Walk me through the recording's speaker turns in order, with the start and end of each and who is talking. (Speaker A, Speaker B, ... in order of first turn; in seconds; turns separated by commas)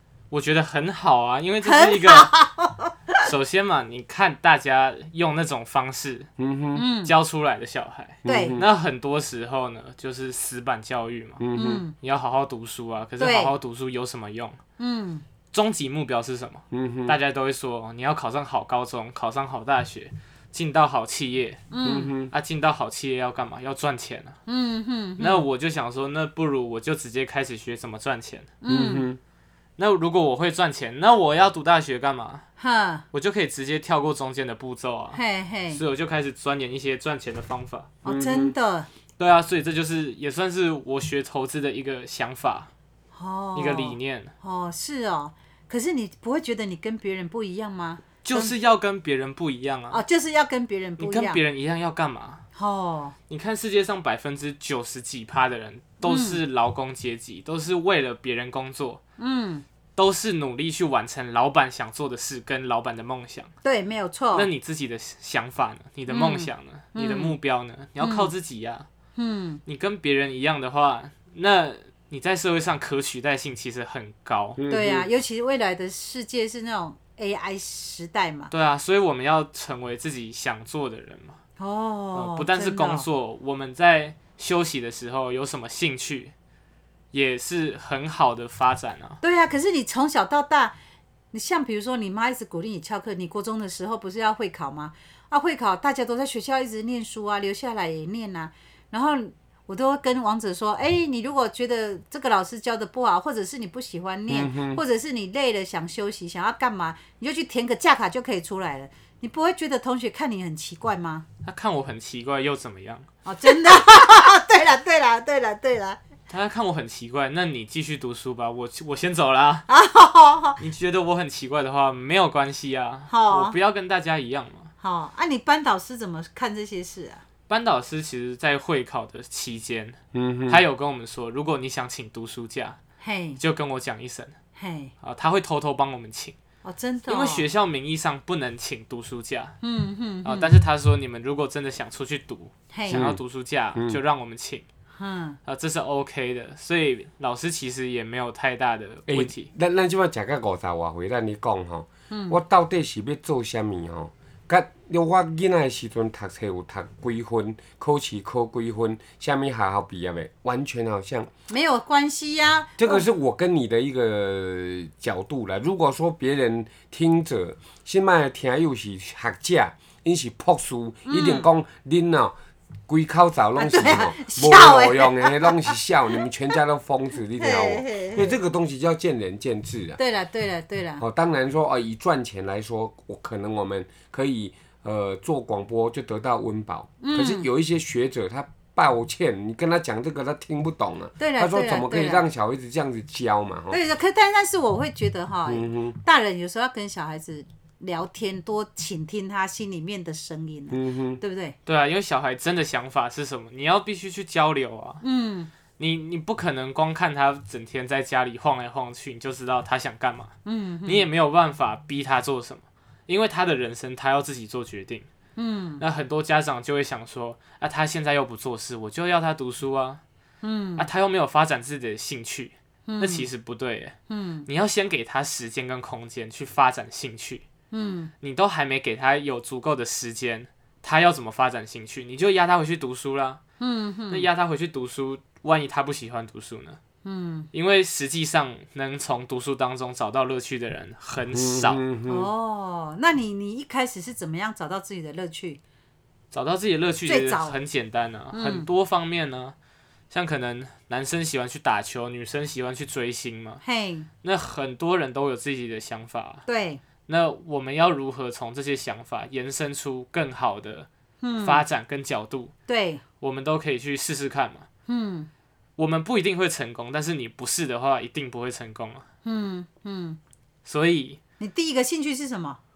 Speaker A: 0.3-2.3, Speaker B: 1.6-3.3, Speaker A: 3.2-6.3, Speaker C: 6.4-6.8, Speaker B: 6.7-7.1, Speaker A: 7.0-11.4, Speaker C: 8.2-8.7, Speaker B: 8.2-8.6, Speaker C: 11.4-11.8, Speaker B: 11.5-11.9, Speaker A: 12.0-14.6, Speaker B: 13.2-13.5, Speaker B: 14.8-15.2, Speaker A: 15.5-21.6, Speaker C: 16.7-17.2, Speaker B: 21.7-22.1, Speaker C: 21.8-22.3, Speaker A: 22.3-24.3, Speaker B: 24.5-25.4, Speaker A: 25.2-28.5, Speaker B: 28.6-29.1, Speaker C: 28.7-29.2, Speaker A: 29.8-32.4, Speaker B: 32.6-33.0, Speaker A: 33.1-37.9, Speaker B: 35.1-35.8, Speaker B: 38.0-38.9, Speaker C: 38.0-38.5, Speaker A: 39.2-42.7, Speaker B: 43.1-48.5, Speaker A: 43.5-44.3, Speaker A: 48.2-50.0, Speaker B: 49.9-51.4, Speaker A: 51.0-52.4, Speaker B: 52.5-53.1, Speaker A: 53.3-59.0, Speaker B: 56.0-56.4, Speaker B: 59.2-59.6, Speaker A: 60.0-63.5, Speaker B: 63.6-64.5, Speaker A: 64.3-68.9, Speaker B: 66.1-67.3, Speaker B: 68.0-68.3, Speaker B: 69.2-69.6, Speaker A: 69.7-74.6, Speaker C: 74.6-75.1, Speaker B: 74.7-78.5, Speaker A: 78.5-81.4, Speaker B: 81.6-83.0, Speaker A: 82.1-86.3, Speaker A: 87.1-89.2, Speaker B: 89.2-90.7, Speaker B: 91.3-111.2, Speaker C: 104.3-104.8, Speaker A: 111.4-113.1, Speaker B: 113.2-116.0, Speaker A: 116.3-119.6, Speaker B: 119.7-120.6, Speaker A: 120.6-124.7, Speaker B: 123.1-123.5, Speaker B: 124.8-127.2, Speaker A: 127.5-130.0, Speaker C: 130.1-130.6, Speaker A: 130.5-132.8, Speaker B: 133.0-133.4, Speaker A: 133.4-134.3, Speaker B: 134.6-134.9, Speaker A: 135.0-136.4, Speaker B: 136.6-137.5, Speaker A: 137.1-139.6, Speaker B: 139.6-140.6, Speaker A: 140.2-144.7, Speaker B: 142.7-143.1, Speaker C: 142.9-143.2, Speaker C: 143.7-144.0, Speaker B: 145.0-145.4, Speaker A: 145.4-149.5, Speaker C: 149.1-161.3, Speaker B: 152.1-152.4, Speaker B: 161.5-163.0, Speaker C: 162.8-172.3, Speaker B: 171.1-171.5, Speaker C: 172.9-180.0, Speaker B: 173.6-175.7, Speaker B: 177.4-178.3, Speaker B: 180.0-181.0, Speaker C: 181.0-193.8, Speaker B: 187.0-187.5, Speaker B: 191.2-192.2, Speaker B: 193.7-201.6, Speaker C: 195.4-196.0, Speaker C: 200.7-201.2, Speaker A: 201.7-205.0, Speaker B: 205.0-205.5, Speaker A: 205.8-210.3, Speaker B: 210.4-211.1, Speaker A: 210.8-215.1, Speaker B: 215.3-215.8, Speaker A: 215.8-220.0, Speaker B: 220.4-220.9, Speaker A: 220.8-223.9, Speaker B: 222.9-223.3, Speaker B: 224.1-224.5, Speaker A: 224.4-227.4, Speaker B: 227.7-228.1, Speaker A: 228.2-233.4, Speaker B: 233.6-234.3, Speaker A: 234.1-236.8, Speaker B: 237.0-237.5, Speaker A: 237.5-241.8, Speaker C: 241.3-242.3, Speaker B: 242.1-245.6, Speaker A: 246.3-249.5, Speaker B: 247.1-247.6, Speaker B: 248.3-248.7, Speaker A: 250.1-253.6, Speaker B: 253.6-254.1, Speaker A: 254.2-256.4, Speaker B: 256.5-256.8, Speaker A: 257.1-260.9, Speaker B: 261.2-261.6, Speaker A: 261.4-262.5, Speaker B: 262.7-263.0, Speaker A: 263.2-264.7, Speaker B: 264.9-265.3, Speaker A: 265.8-269.0, Speaker B: 269.2-270.2, Speaker A: 270.6-271.2, Speaker B: 271.4-272.6